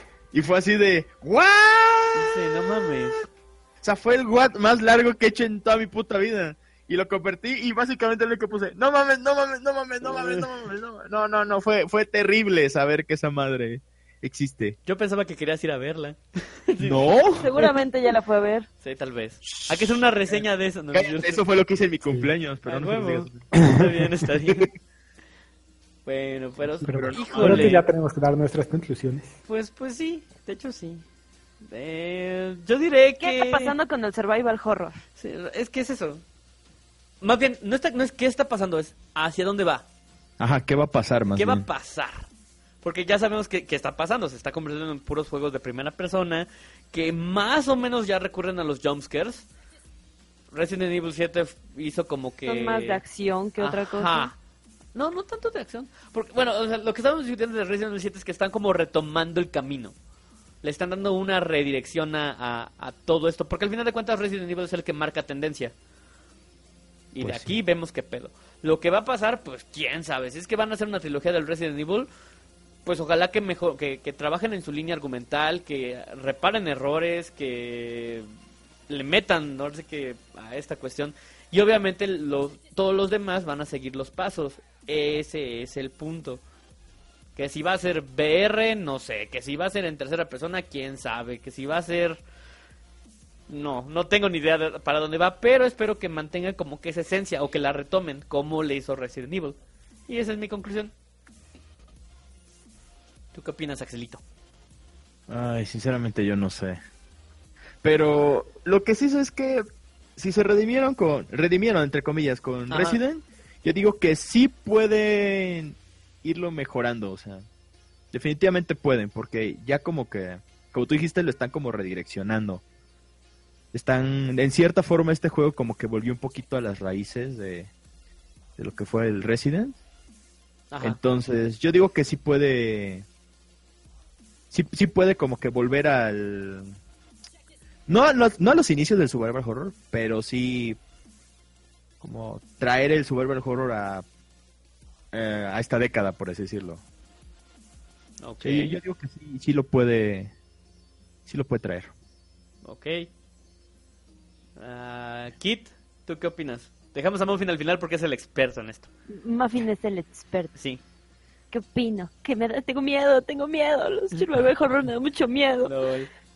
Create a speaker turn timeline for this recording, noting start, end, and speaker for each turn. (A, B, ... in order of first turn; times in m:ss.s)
0:00.3-0:02.9 A
0:02.1-0:03.2 B
0:03.8-0:14.8 A
0:10.0-0:10.5 B
0:14.9-0:17.0 B
0:16.8-0:17.7 A
0:17.4-0:18.7 C
0:18.8-0:21.4 B
0:19.5-0:20.0 A
0:20.9-0:23.4 A
0:22.7-0:24.7 B
0:23.6-0:24.1 D
0:26.1-0:27.8 B
0:26.6-0:27.7 A
0:26.8-0:29.3 D
0:29.5-0:31.0 B
0:31.7-0:33.8 B
0:33.2-0:35.0 C
0:35.2-0:36.2 B
0:37.2-0:39.8 B
0:40.4-0:41.7 A
0:41.4-0:42.3 B
0:42.8-0:49.5 B
0:50.5-0:53.0 B
0:52.5-0:54.3 C
0:53.6-0:54.4 B
0:54.9-1:00.0 B
1:00.6-1:05.7 B
1:07.1-1:12.1 B
1:07.2-1:07.6 A
1:12.8-1:18.3 B
1:18.9-1:26.4 B
1:27.4-1:32.2 B
1:33.5-1:40.9 B
1:43.3-1:44.2 B
1:45.3-1:46.8 A
1:47.8-1:49.6 A
1:50.2-1:57.5 A
1:52.7-1:53.0 B
1:58.1-2:02.6 A
2:03.7-2:07.7 A
2:08.6-2:09.8 A
2:10.7-2:11.0 B
2:10.8-2:13.0 A
2:14.5-2:16.8 A
2:17.9-2:20.8 A
2:22.0-2:24.0 A
2:25.1-2:26.8 A
2:28.2-2:28.8 B
2:28.4-2:30.3 A
2:31.3-2:31.9 A
2:32.6-2:33.1 B
2:34.6-2:38.9 B
2:39.2-2:40.5 C
2:40.6-2:40.8 B
2:41.5-2:45.7 C
2:45.6-2:46.1 B